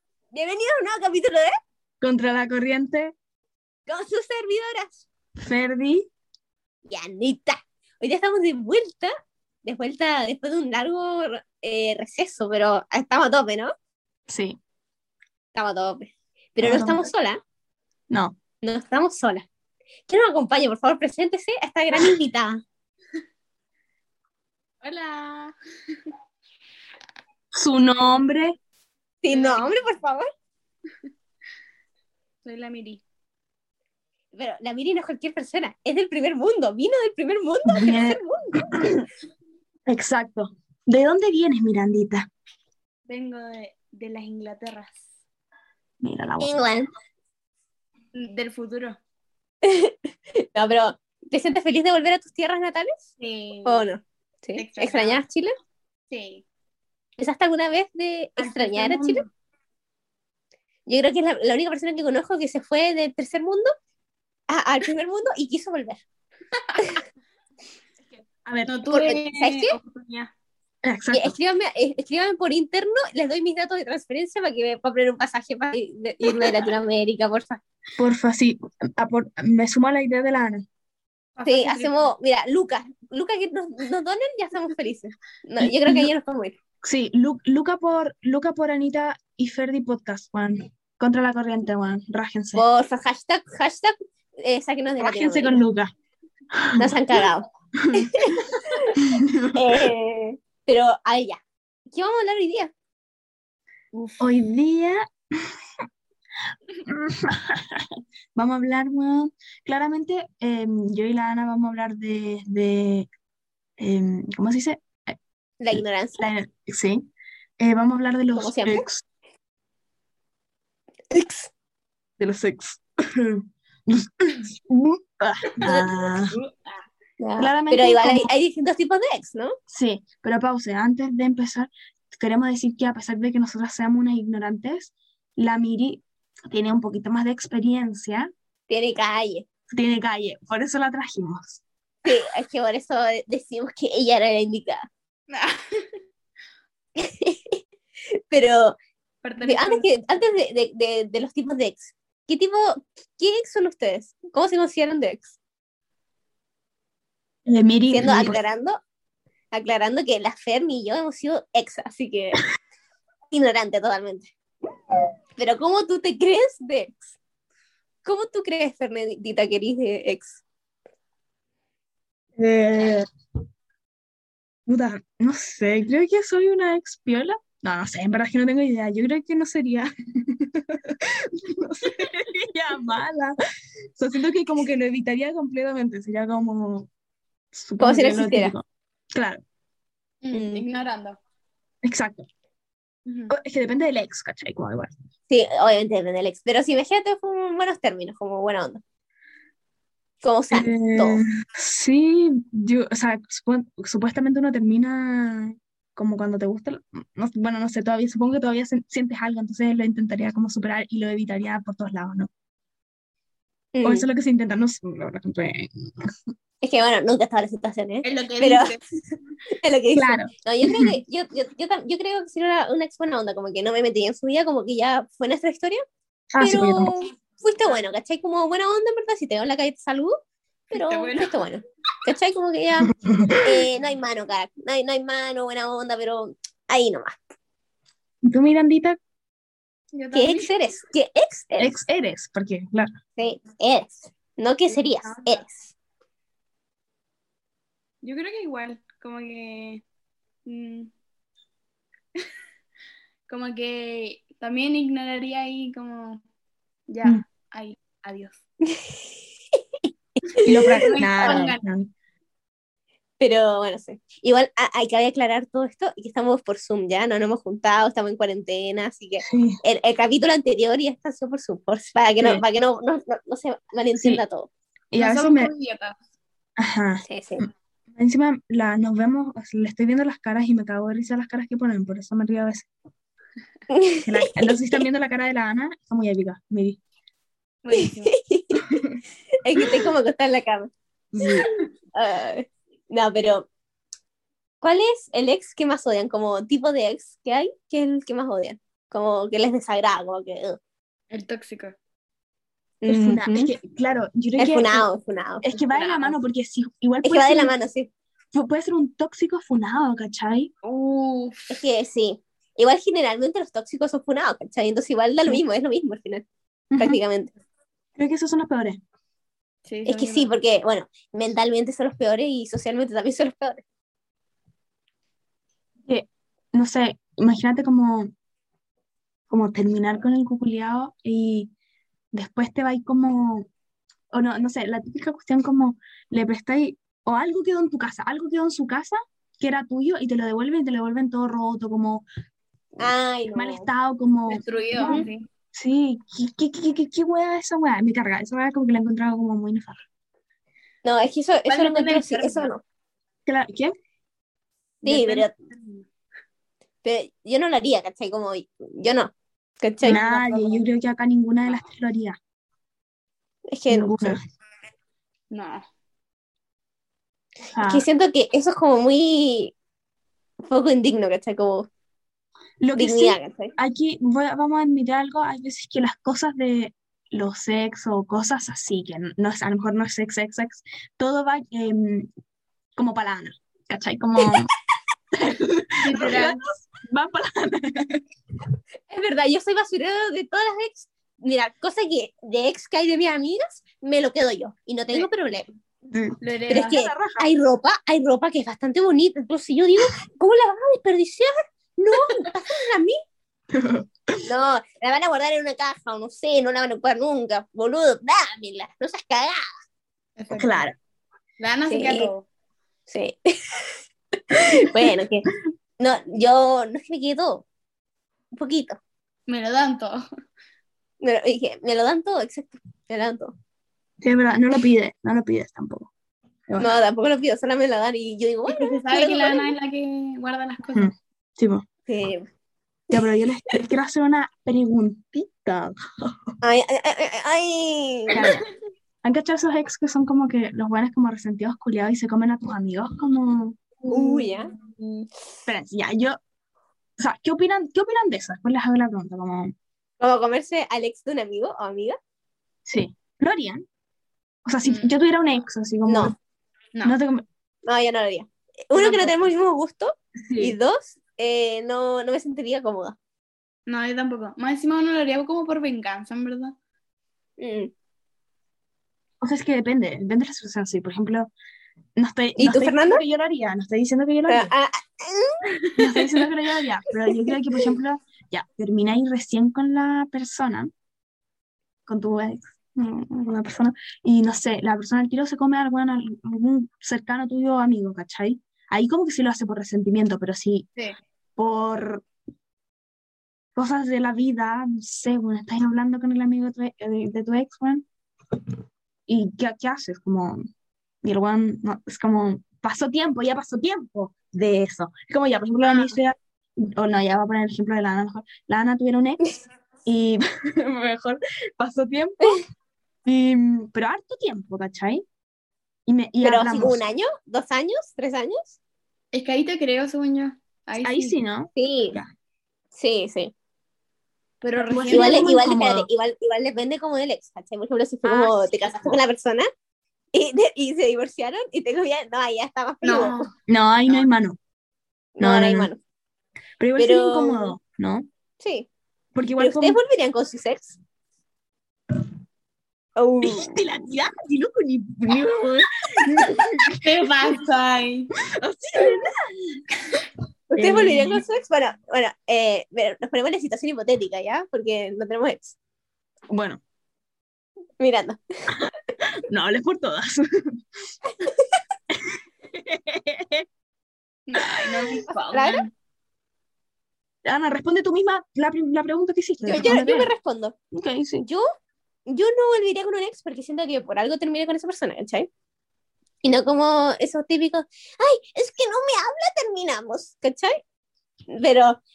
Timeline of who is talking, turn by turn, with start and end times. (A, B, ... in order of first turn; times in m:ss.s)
0:00.3-0:01.5 A
0:02.0-0:03.1 B
0:03.9-0:05.0 A
0:05.4-0:06.1 B
0:06.9-0:09.1 A
0:09.6-0:13.7 A
0:14.3-0:14.6 B
0:15.5-0:17.4 A
0:16.6-0:17.0 B
0:18.1-0:18.4 B
0:18.6-0:19.5 A
0:20.1-0:22.6 A
0:24.8-0:25.5 C
0:27.5-0:28.6 B
0:29.2-0:30.3 A
0:29.3-0:29.8 C
0:32.4-0:33.0 C
0:34.3-0:38.9 A
0:37.7-0:39.1 B
0:39.9-0:42.3 B
0:43.1-0:45.0 C
0:46.0-0:46.6 B
0:46.4-0:46.9 A
0:48.1-0:49.0 C
0:49.6-0:53.0 A
0:53.2-0:53.9 C
0:53.6-0:55.5 A
0:54.6-0:55.2 C
0:56.1-0:56.4 C
0:57.2-0:59.2 A
0:58.4-0:59.3 C
1:00.9-1:03.7 A
1:04.5-1:06.0 A
1:08.2-1:08.8 B
1:08.7-1:10.3 C
1:08.9-1:09.8 A
1:10.8-1:11.4 B
1:11.1-1:17.6 A
1:18.0-1:20.6 B
1:21.4-1:22.1 C
1:21.4-1:26.6 A
1:25.6-1:26.1 B
1:26.8-1:32.6 B
1:32.6-1:35.6 A
1:35.0-1:35.9 B
1:36.5-1:37.2 B
1:36.8-1:38.9 A
1:37.8-1:39.9 B
1:39.6-1:41.4 A
1:41.9-1:42.7 A
1:43.9-1:44.2 C
1:44.2-1:45.0 B
1:46.9-1:53.1 B
1:53.8-1:55.2 B
1:55.6-1:56.2 A
1:55.7-1:57.1 B
1:57.6-1:59.0 B
1:58.4-1:58.8 A
2:01.1-2:01.5 A
2:02.2-2:06.4 B
2:05.6-2:06.2 A
2:07.2-2:09.5 A
2:07.4-2:08.3 B
2:09.7-2:18.3 B
2:18.7-2:19.4 A
2:19.7-2:21.6 B
2:22.0-2:24.9 A
2:25.3-2:25.9 C
2:27.0-2:27.6 A
2:28.3-2:28.8 A
2:29.2-2:29.9 C
2:29.4-2:35.4 A
2:37.5-2:38.4 B
2:37.9-2:38.8 A
2:39.5-2:42.4 A
2:43.3-2:44.3 A
2:45.4-2:47.2 A
2:48.0-2:50.4 A
2:52.4-2:53.1 B
2:54.7-3:03.4 B
3:04.0-3:06.9 B
3:07.5-3:09.4 B
3:07.8-3:08.5 A
3:10.2-3:11.2 C
3:10.3-3:10.6 A
3:11.8-3:12.3 B
3:13.1-3:13.4 C
3:13.3-3:14.9 B
3:15.3-3:18.8 A
3:20.2-3:21.2 A
3:20.5-3:32.3 B
3:33.7-3:34.1 A
3:33.8-3:36.1 B
3:36.6-3:38.8 A
3:38.0-3:38.8 C
3:39.6-3:45.8 A
3:40.0-3:40.9 B
3:46.3-3:47.0 B
3:46.4-3:50.2 A
3:50.7-3:51.4 C
3:50.7-3:57.2 A
3:52.9-3:53.6 B
3:58.2-3:59.0 B
3:59.9-4:00.5 C
4:00.1-4:01.8 A
4:01.6-4:02.9 B
4:03.2-4:05.7 A
4:04.7-4:05.4 C
4:08.0-4:09.8 C
4:10.5-4:10.9 C
4:13.3-4:16.2 C
4:16.9-4:18.4 C
4:18.6-4:19.1 A
4:20.2-4:21.4 A
4:20.4-4:21.6 C
4:20.4-4:21.9 B
4:23.2-4:34.5 A
4:29.2-4:29.6 B
4:34.9-4:35.5 B
4:35.0-4:36.0 C
4:36.6-4:42.7 B
4:37.1-4:37.4 A
4:43.7-4:44.8 A
4:44.0-4:46.8 B
4:47.6-4:48.1 C
4:47.7-4:48.8 A
4:49.4-4:50.7 A
4:51.1-4:51.5 B
4:52.0-4:53.5 A
4:54.6-5:00.6 A
5:01.1-5:01.8 C
5:02.8-5:03.5 A
5:02.9-5:04.9 B
5:04.4-5:05.4 A
5:05.4-5:07.5 B
5:05.5-5:06.2 C
5:07.0-5:07.9 A
5:08.3-5:10.5 B
5:10.6-5:11.6 C
5:11.5-5:16.2 A
5:16.7-5:17.0 B
5:16.8-5:17.3 A
5:18.0-5:18.8 B
5:19.7-5:20.3 C
5:19.9-5:23.6 A
5:25.9-5:28.1 B
5:29.3-5:31.5 B
5:32.1-5:33.5 B
5:34.1-5:42.0 B
5:42.8-5:43.7 A
5:43.3-5:49.8 B
5:44.3-5:45.3 C
5:50.8-5:52.6 A
5:51.5-5:52.5 C
5:53.3-5:53.7 B
5:54.8-5:55.3 A
5:54.9-5:55.3 B
5:56.8-6:00.0 A
5:59.8-6:00.6 C
5:59.9-6:02.2 B
6:03.5-6:04.2 A
6:03.7-6:04.2 B
6:05.3-6:05.6 C
6:07.5-6:07.8 B
6:07.6-6:09.6 A
6:10.4-6:11.7 A
6:12.6-6:22.1 B
6:12.8-6:13.6 A
6:22.8-6:24.5 B
6:25.1-6:28.0 B
6:25.8-6:26.4 C
6:28.9-6:35.5 A
6:35.9-6:37.2 B
6:36.2-6:36.8 C
6:36.5-6:43.0 A
6:43.5-6:44.2 B
6:44.3-6:49.4 A
6:50.2-6:50.6 C
6:50.3-6:50.8 B
6:51.4-6:52.3 C
6:51.7-6:52.1 A
6:52.9-6:53.8 A
6:54.3-6:55.3 A
6:54.3-6:54.9 B
6:55.8-6:57.5 A
6:58.3-6:58.8 A
6:59.3-7:00.0 C
7:01.0-7:03.3 A
7:04.0-7:05.9 B
7:06.6-7:09.6 A
7:08.5-7:10.9 C
7:10.7-7:11.6 B
7:11.9-7:12.3 A
7:12.9-7:16.3 B
7:16.4-7:18.2 A
7:18.1-7:18.5 B
7:19.0-7:23.6 B
7:23.9-7:24.5 A
7:23.9-7:25.1 C
7:25.5-7:26.2 B
7:27.0-7:29.5 B
7:30.0-7:32.0 A
7:32.7-7:33.6 B
7:34.5-7:36.2 B
7:34.6-7:35.0 C
7:35.9-7:36.2 A
7:36.8-7:37.2 B
7:37.7-7:43.0 A
7:38.8-7:39.1 C
7:40.3-7:40.6 B
7:43.7-7:46.6 C
7:47.4-7:47.7 A
7:49.2-7:51.3 B
7:52.0-7:54.5 B
7:52.4-7:53.0 A
7:54.3-7:56.0 A
7:55.8-8:00.7 B
7:57.1-7:57.7 A
8:01.9-8:10.7 B
8:11.4-8:12.1 B
8:13.6-8:17.9 B
8:19.1-8:20.4 B
8:21.0-8:29.3 B
8:25.6-8:26.0 C
8:29.9-8:32.4 B
8:33.0-8:35.0 B
8:35.9-8:36.8 B
8:36.2-8:38.6 A
8:39.1-8:41.2 C
8:40.8-8:42.1 B
8:41.6-8:42.0 A
8:42.7-8:43.3 A
8:44.4-8:45.3 C
8:44.7-8:45.9 B
8:44.9-8:49.5 A
8:48.0-8:48.4 B
8:50.1-8:53.3 A
8:52.8-8:53.3 C
8:53.5-8:54.4 B
8:55.2-8:55.8 A
8:55.2-8:55.7 B
8:56.6-8:58.1 B
8:56.8-8:57.6 A
8:58.4-8:58.7 A
8:59.2-8:59.8 B
8:59.4-9:00.8 A
9:03.0-9:03.6 A
9:03.2-9:06.8 B
9:06.8-9:08.1 C
9:08.2-9:09.1 B
9:10.5-9:15.6 A
9:10.6-9:11.2 B
9:16.3-9:16.6 B
9:17.8-9:18.6 A
9:19.2-9:20.6 B
9:21.9-9:23.4 B
9:24.3-9:25.7 C
9:24.4-9:25.0 B
9:25.3-9:25.6 A
9:27.2-9:30.1 B
9:29.4-9:30.6 A
9:30.7-9:31.3 B
9:32.1-9:35.3 A
9:36.2-9:40.6 A
9:41.3-9:41.8 A